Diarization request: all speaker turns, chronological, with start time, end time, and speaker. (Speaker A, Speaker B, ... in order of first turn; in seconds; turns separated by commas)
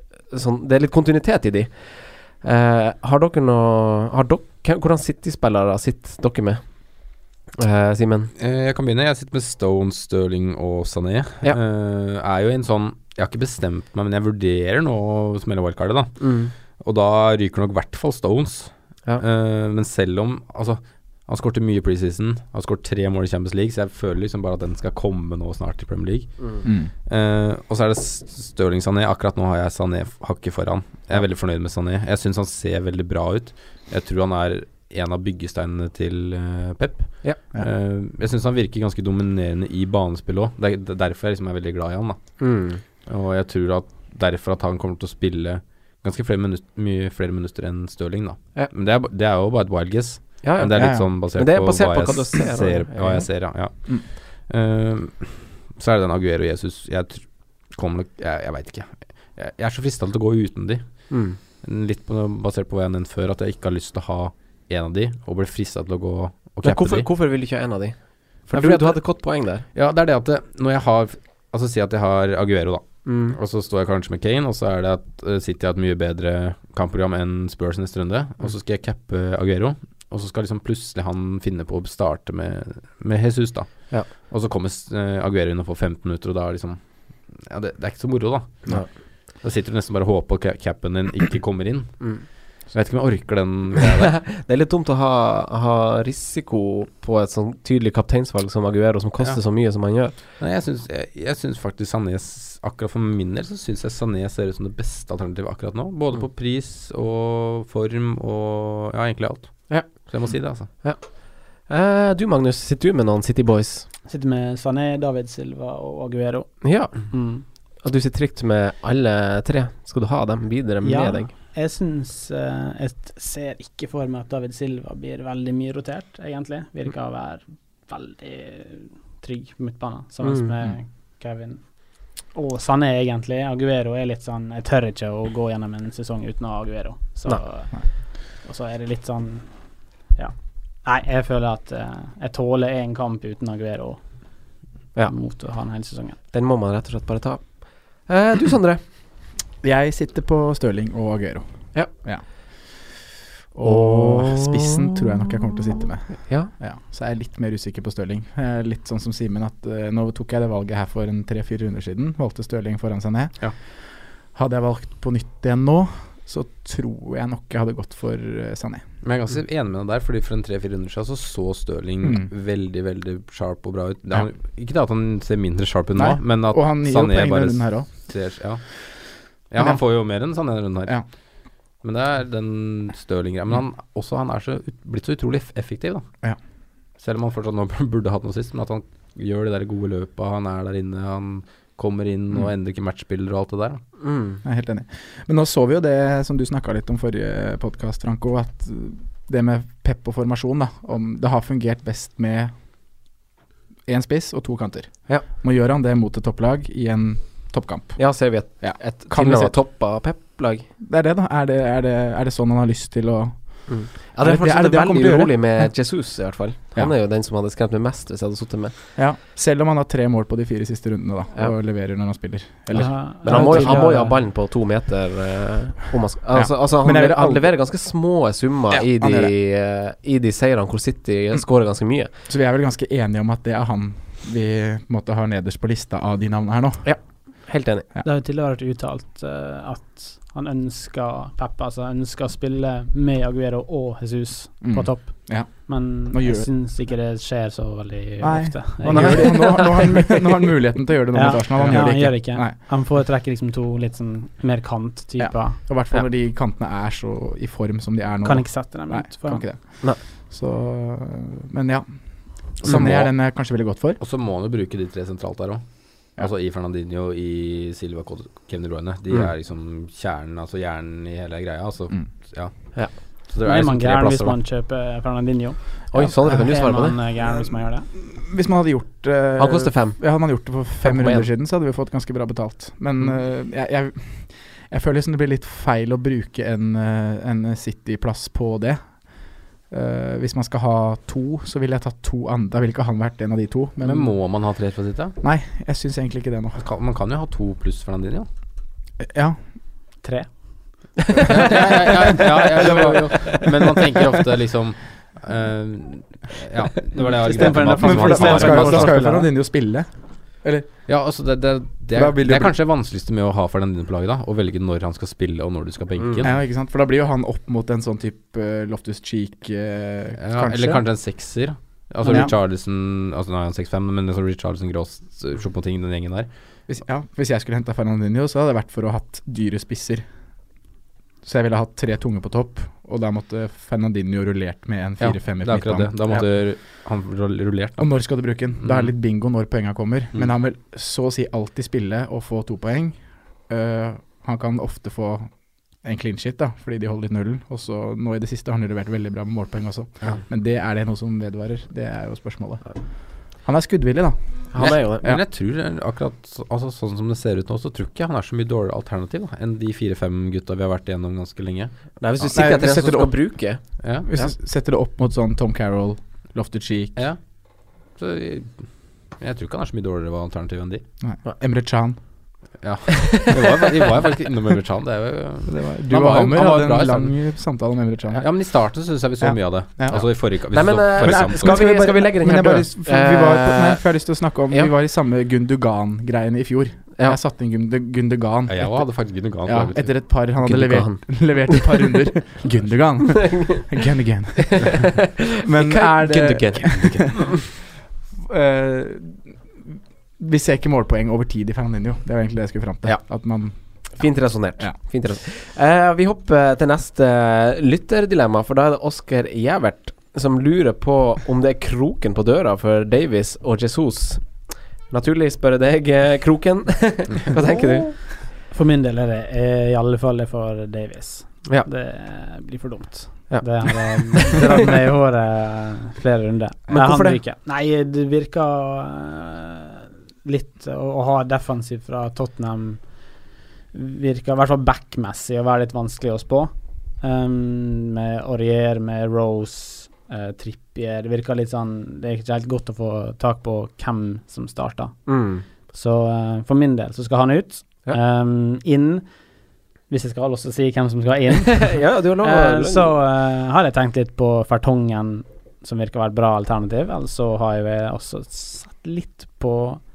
Speaker A: 0.3-8.3, Speaker B: 8.4-16.2, Speaker A: 16.2-16.5, Speaker B: 16.8-26.5, Speaker C: 26.6-26.9, Speaker B: 27.1-42.2, Speaker A: 42.4-42.8, Speaker B: 43.0-67.1, Speaker A: 50.4-53.3, Speaker C: 50.7-51.1, Speaker A: 61.1-61.4, Speaker A: 66.6-69.6, Speaker B: 68.5-88.8, Speaker A: 73.0-73.4, Speaker B: 89.3-94.2, Speaker A: 94.1-100.2, Speaker B: 100.1-110.7, Speaker A: 109.7-113.9, Speaker D: 114.0-117.4, Speaker A: 116.6-117.2, Speaker A: 117.8-121.3, Speaker D: 120.8-144.4, Speaker A: 130.2-130.5, Speaker D: 145.1-146.2, Speaker A: 146.3-148.8, Speaker C: 149.6-168.8, Speaker A: 153.6-154.8, Speaker B: 169.0-178.6, Speaker C: 172.0-172.3, Speaker C: 175.9-177.9, Speaker B: 179.5-181.0, Speaker B: 181.8-186.1, Speaker B: 187.0-193.8, Speaker A: 194.0-194.4, Speaker C: 194.4-202.5, Speaker C: 203.8-209.6, Speaker A: 207.9-210.7, Speaker C: 210.8-216.1, Speaker A: 213.7-218.8, Speaker C: 218.9-224.0, Speaker D: 222.7-224.2, Speaker A: 223.2-232.1, Speaker C: 226.3-227.5, Speaker C: 228.7-229.3, Speaker C: 232.2-236.9, Speaker A: 236.8-237.8, Speaker D: 238.0-249.8, Speaker C: 244.6-246.5, Speaker C: 248.2-252.6, Speaker A: 248.9-249.8, Speaker D: 251.1-255.6, Speaker C: 255.2-264.0, Speaker D: 258.2-259.4, Speaker A: 262.6-263.0, Speaker B: 264.0-274.4, Speaker D: 273.4-277.9, Speaker A: 275.9-277.0, Speaker C: 276.0-276.4, Speaker C: 277.2-294.1, Speaker A: 279.4-281.3, Speaker B: 293.8-295.1, Speaker C: 295.2-296.6, Speaker B: 296.6-298.3, Speaker C: 299.0-299.4, Speaker D: 300.0-300.4, Speaker B: 301.2-309.0, Speaker C: 302.6-303.4, Speaker A: 302.6-303.4, Speaker D: 307.2-309.3, Speaker C: 307.4-310.8, Speaker B: 310.9-316.3, Speaker C: 311.9-312.5, Speaker C: 316.2-320.8, Speaker B: 320.2-326.3, Speaker C: 322.0-322.3, Speaker C: 326.7-330.1, Speaker C: 331.2-336.3, Speaker B: 335.0-338.9, Speaker C: 337.8-345.3, Speaker C: 345.8-352.8, Speaker C: 353.3-355.2, Speaker A: 354.5-355.1, Speaker B: 354.6-362.2, Speaker A: 362.0-364.3, Speaker C: 362.3-367.0, Speaker B: 363.8-364.1, Speaker B: 367.9-368.6, Speaker B: 369.2-370.8, Speaker C: 371.0-372.0, Speaker B: 372.6-377.1, Speaker A: 373.0-373.7, Speaker C: 375.4-378.3, Speaker B: 378.2-381.7, Speaker C: 379.2-394.8, Speaker A: 380.5-384.7, Speaker B: 388.5-389.9, Speaker A: 390.4-391.9, Speaker A: 393.2-393.6, Speaker A: 394.5-397.3, Speaker C: 395.3-397.4, Speaker C: 398.1-403.9, Speaker A: 403.9-418.1, Speaker D: 418.5-433.2, Speaker A: 423.3-424.4, Speaker A: 426.7-427.2, Speaker D: 433.7-449.1, Speaker A: 445.1-445.4, Speaker D: 449.9-459.8, Speaker A: 451.5-453.0